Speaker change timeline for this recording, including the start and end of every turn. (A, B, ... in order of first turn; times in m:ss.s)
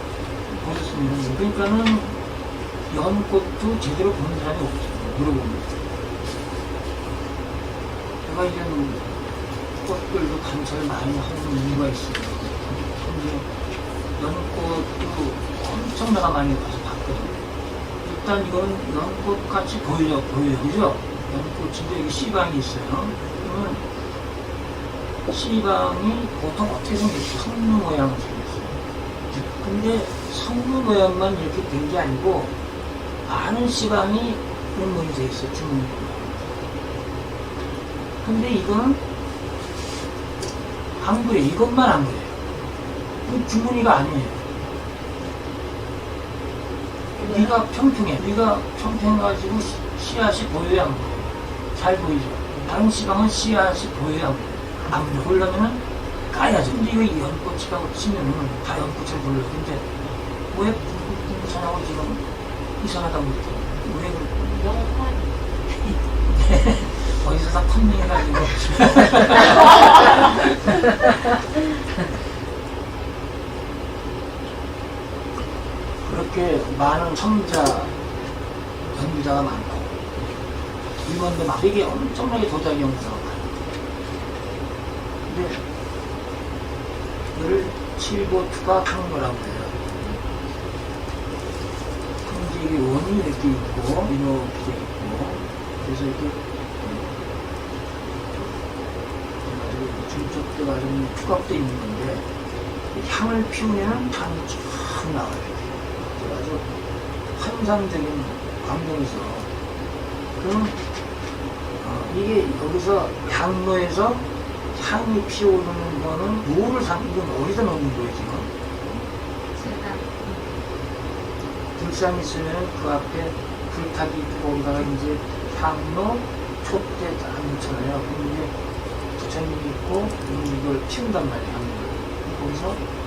0:00.6-0:02.2 A
0:02.9-0:05.7 A
0:08.2-0:09.2 A
0:09.8-0:13.5 A
0:14.2-0:17.4 A
0:18.0-0:23.8 A
0:25.3-0:32.5 A
0:33.3-0:36.5 A
0:38.2-0:39.0 A
0:41.0-0:42.4 A
0:43.2-0:44.4 A
0:47.1-0:47.5 B
0:47.2-0:59.9 A
1:00.5-1:02.2 A
1:02.8-1:04.3 A
1:04.3-1:05.4 B
1:06.2-1:09.7 A
1:16.0-1:18.0 A
1:18.9-1:20.0 A
1:21.0-1:23.5 A
1:25.3-1:25.6 A
1:27.3-1:29.8 A
1:32.2-1:37.2 A
1:39.4-1:42.3 A
1:42.9-1:46.6 A
1:47.3-1:49.5 A
1:50.4-1:50.8 A
1:51.8-1:58.5 A
1:59.6-2:00.4 B
2:01.8-2:08.5 A
2:09.2-2:12.8 A